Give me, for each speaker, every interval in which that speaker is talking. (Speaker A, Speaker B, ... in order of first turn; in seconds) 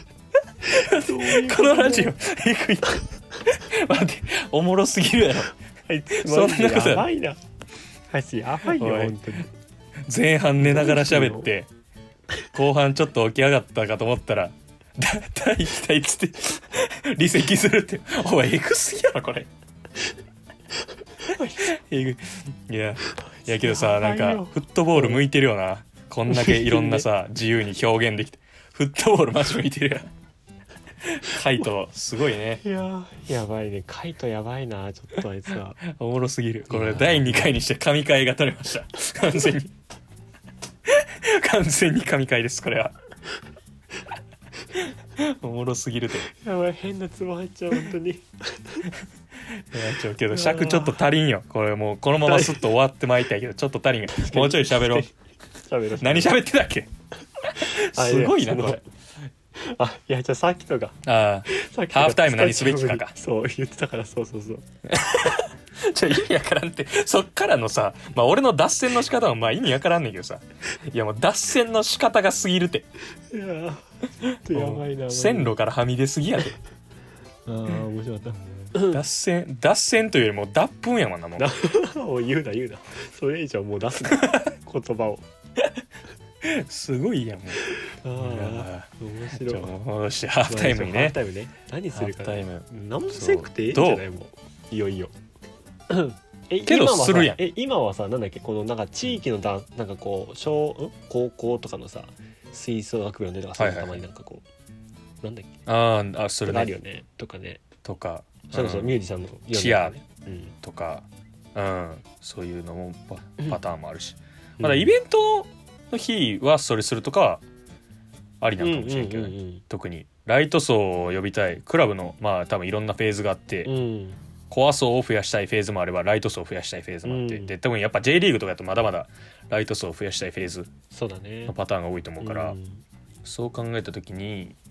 Speaker A: 0.6-5.5, 6.2-7.1, 8.7-9.3, 10.1-11.7, 12.5-19.5, 21.6-30.1, 31.0-32.6, 35.9-39.7, 40.9-42.9, 44.8-46.3, 49.6-55.1, 56.0-56.9, 57.5-58.8, 61.0-63.1, 64.9-72.9, 74.5-76.6, 78.6-81.5, 86.4-87.7, 88.2-91.2, 91.9-94.0, 96.7-97.4, 103.6-104.0, 105.7-106.7, 107.8-109.0, 109.5-110.0, 110.6-117.4, 118.4-123.7, 124.5-130.7, 131.5-132.6, 133.2-134.6
Speaker B: 0.8-2.1, 5.9-7.4, 8.1-9.5, 10.6-11.5, 21.3-21.7, 23.2-25.2, 26.3-27.1, 32.6-35.8, 36.7-37.5, 46.3-48.9, 50.3-51.0, 52.2-52.6, 54.1-56.4, 57.6-58.8, 59.6-64.7, 73.3-73.8, 74.5-75.5, 77.5-79.0, 81.4-85.2, 87.7-89.7, 90.5-95.1, 95.9-104.5, 105.2-105.6, 106.5-107.6, 108.5-110.5, 114.6-115.0, 118.6-119.6, 123.7-124.2, 127.0-127.5, 130.9-131.6, 132.2-132.8